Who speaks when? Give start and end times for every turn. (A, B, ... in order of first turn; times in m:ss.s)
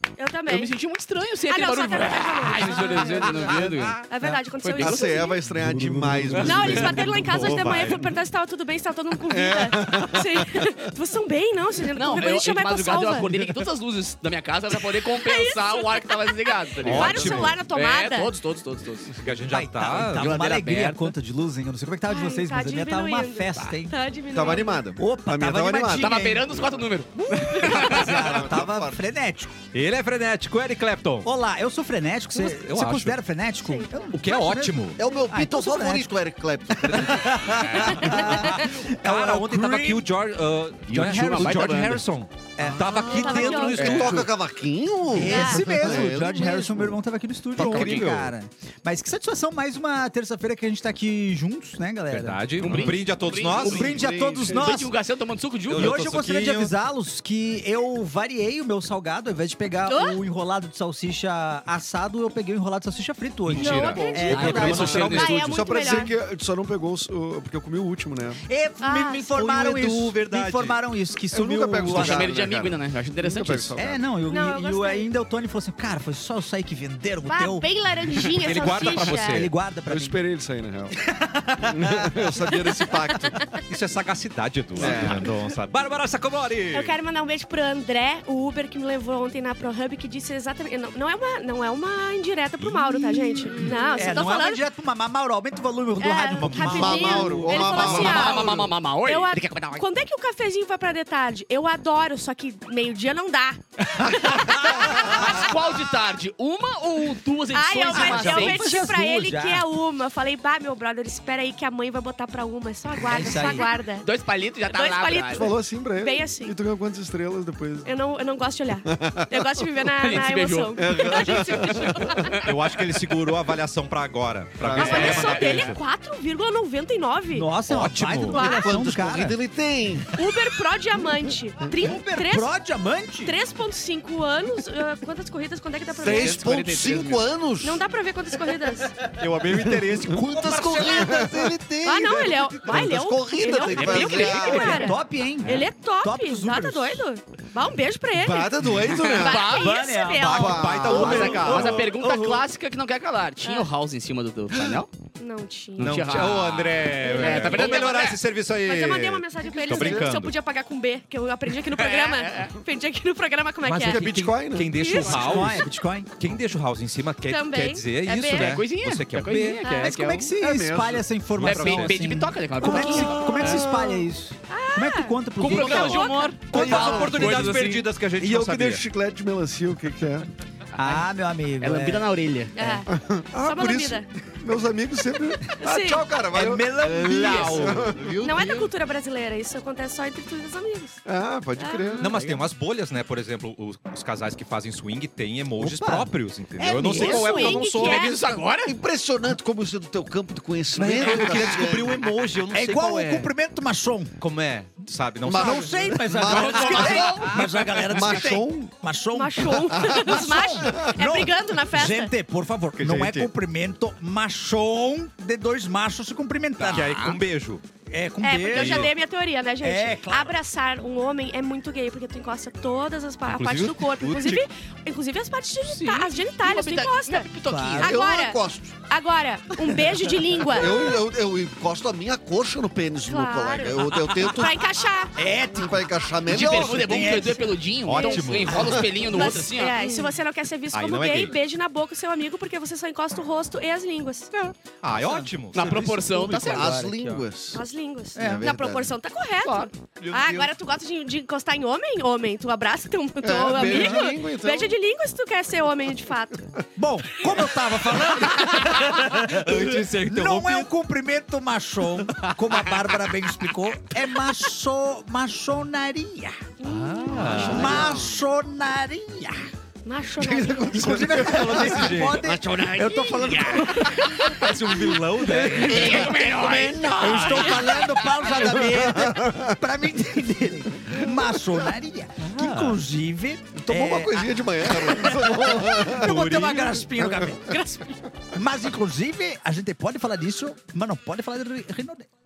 0:00.2-0:00.7 A
0:00.5-0:05.3 B
0:01.5-0:05.4 A
0:03.5-0:04.1 C
0:04.8-0:07.9 D
0:05.7-0:06.5 E
0:06.0-0:07.0 B
0:06.4-0:13.3 A
0:06.6-0:08.1 C
0:09.3-0:10.7 D
0:12.0-0:19.2 B
0:15.1-0:18.4 A
0:16.8-0:17.6 C
0:19.1-0:20.4 C
0:19.5-0:24.0 E
0:20.1-0:21.1 B
0:22.1-0:24.9 A
0:24.3-0:26.6 D
0:25.0-0:26.6 E
0:25.9-0:28.3 B
0:27.2-0:29.5 E
0:27.8-0:29.0 D
0:29.7-0:31.3 C
0:31.2-0:36.1 E
0:32.3-0:33.2 C
0:33.6-0:34.2 A
0:34.1-0:35.0 C
0:35.0-0:37.6 D
0:36.8-0:40.1 E
0:37.0-0:44.3 C
0:40.9-0:42.0 B
0:41.0-0:41.7 E
0:42.6-0:43.9 E
0:42.6-0:43.1 D
0:43.0-0:44.0 A
0:43.7-0:44.2 B
0:43.8-0:47.0 D
0:45.1-0:52.8 E
0:45.2-0:45.6 A
0:47.6-0:48.1 B
0:47.6-0:48.3 C
0:52.1-0:54.0 C
0:52.6-0:56.0 B
0:52.7-0:54.7 D
0:53.6-0:54.9 E
0:55.7-0:56.7 C
0:55.7-1:05.3 E
0:59.9-1:00.2 A
1:03.5-1:08.4 D
1:03.5-1:06.1 A
1:04.1-1:05.5 B
1:04.4-1:05.4 C
1:08.4-1:12.3 E
1:08.8-1:09.3 A
1:09.3-1:10.8 C
1:11.3-1:14.0 D
1:11.8-1:13.8 B
1:13.8-1:17.7 E
1:14.3-1:15.1 A
1:17.3-1:19.5 A
1:18.3-1:19.5 C
1:19.0-1:20.2 E
1:19.8-1:21.0 D
1:21.0-1:22.3 E
1:21.7-1:23.4 D
1:22.6-1:23.6 A
1:23.7-1:26.9 C
1:24.8-1:25.3 D
1:24.8-1:25.2 E
1:26.7-1:34.6 A
1:32.6-1:33.8 C
1:33.5-1:37.8 E
1:36.0-1:45.3 A
1:36.4-1:37.5 C
1:36.6-1:38.7 D
1:37.6-1:39.8 B
1:44.2-1:48.6 B
1:47.5-1:54.1 A
1:47.9-1:49.7 E
1:53.1-1:53.6 E
1:53.5-1:55.5 B
1:54.7-1:56.5 A
1:55.3-1:57.9 D
1:57.8-2:02.5 A
1:58.8-1:59.5 D
2:00.0-2:02.5 B
2:00.8-2:02.2 D
2:02.4-2:05.8 C
2:04.6-2:05.7 D
2:04.7-2:07.6 A
2:04.8-2:05.6 B
2:07.3-2:09.4 E
2:07.6-2:08.4 C
2:08.2-2:08.8 A
2:08.6-2:10.1 D
2:10.2-2:12.5 A
2:11.8-2:13.3 E
2:13.2-2:16.5 A
2:16.0-2:17.8 D
2:16.0-2:17.3 B
2:17.6-2:19.0 A
2:19.0-2:21.4 C
2:19.6-2:21.5 E
2:19.7-2:24.8 D
2:21.8-2:31.1 A
2:23.6-2:24.6 B
2:24.2-2:27.0 E
2:28.1-2:29.6 D
2:28.8-2:29.6 B
2:29.6-2:32.4 E
2:30.2-2:32.2 C
2:30.3-2:31.7 D
2:30.8-2:34.9 B
2:33.4-2:33.7 A
2:35.2-2:36.3 A
2:35.8-2:38.2 B
2:35.8-2:40.3 C
2:36.9-2:45.4 A
2:39.5-2:40.1 D
2:41.6-2:42.6 B
2:43.6-2:45.6 C
2:43.8-2:45.4 D
2:44.9-2:46.1 E
2:46.2-2:49.6 C
2:47.2-2:48.6 A
2:48.3-2:50.3 B
2:49.6-2:50.0 A
2:49.7-2:57.6 E
2:50.4-2:51.0 D
2:51.4-2:52.0 C
2:51.4-2:53.6 B
2:52.6-2:53.2 A
2:53.2-2:54.0 C
2:54.5-2:56.5 A
2:55.4-2:57.8 B
2:55.5-2:56.0 C
2:56.5-2:58.8 C
2:56.6-2:57.4 D
2:58.2-3:00.3 D
3:00.8-3:02.1 E
3:00.8-3:01.0 B
3:01.6-3:02.8 B
3:02.5-3:04.1 A
3:02.9-3:08.6 D
3:05.6-3:06.0 A
3:06.3-3:08.0 E
3:07.1-3:08.2 C
3:07.3-3:07.6 A
3:08.2-3:11.0 A
3:11.0-3:12.2 D
3:11.6-3:12.0 A
3:12.0-3:12.4 B
3:12.0-3:18.2 C
3:15.6-3:17.2 E
3:16.8-3:18.2 A
3:16.8-3:18.8 B
3:18.6-3:22.1 D
3:20.8-3:23.3 C
3:21.0-3:21.6 B
3:22.5-3:24.2 E
3:24.2-3:26.4 C
3:25.2-3:28.7 D
3:25.3-3:37.1 E
3:26.3-3:27.4 B
3:29.1-3:32.1 A
3:29.7-3:31.0 D
3:32.8-3:33.3 C
3:36.6-3:37.2 B
3:36.6-3:37.6 C
3:37.9-3:38.9 E
3:38.2-3:47.3 A
3:38.5-3:38.9 C
3:39.6-3:40.3 E
3:43.3-3:44.5 C
3:45.7-3:48.0 B
3:47.4-3:47.9 E
3:47.8-3:48.8 D
3:47.8-3:50.9 A
3:50.5-3:54.7 D
3:53.0-3:55.1 A
3:53.9-3:54.4 E
3:55.1-3:57.5 E
3:55.5-3:57.2 D
3:56.3-4:00.0 B
3:57.8-3:58.8 C
3:57.9-3:58.4 A
3:58.4-3:58.8 E
3:59.0-4:04.3 A
4:00.7-4:01.4 C
4:04.8-4:05.8 C
4:04.9-4:07.2 E
4:05.5-4:06.7 B
4:06.3-4:07.6 D
4:07.5-4:16.5 A
4:08.2-4:08.9 D
4:08.2-4:08.4 E
4:09.4-4:09.7 B
4:10.0-4:10.5 D
4:13.2-4:14.7 D
4:13.6-4:14.0 E
4:16.8-4:26.4 E
4:18.1-4:20.7 C
4:22.0-4:23.0 C
4:26.6-4:27.5 A
4:26.6-4:28.0 C
4:27.1-4:28.2 D
4:27.1-4:29.5 E
4:29.8-4:31.0 A
4:30.2-4:34.5 D
4:30.7-4:34.2 E
4:31.0-4:32.2 C
4:34.0-4:34.3 B
4:34.1-4:36.1 C
4:35.2-4:39.6 D
4:35.2-4:36.0 E
4:35.4-4:38.0 B
4:37.0-4:47.6 E
4:42.2-4:42.8 C
4:43.5-4:46.2 D
4:45.8-4:46.9 C
4:47.0-4:47.5 D
4:48.3-4:52.1 E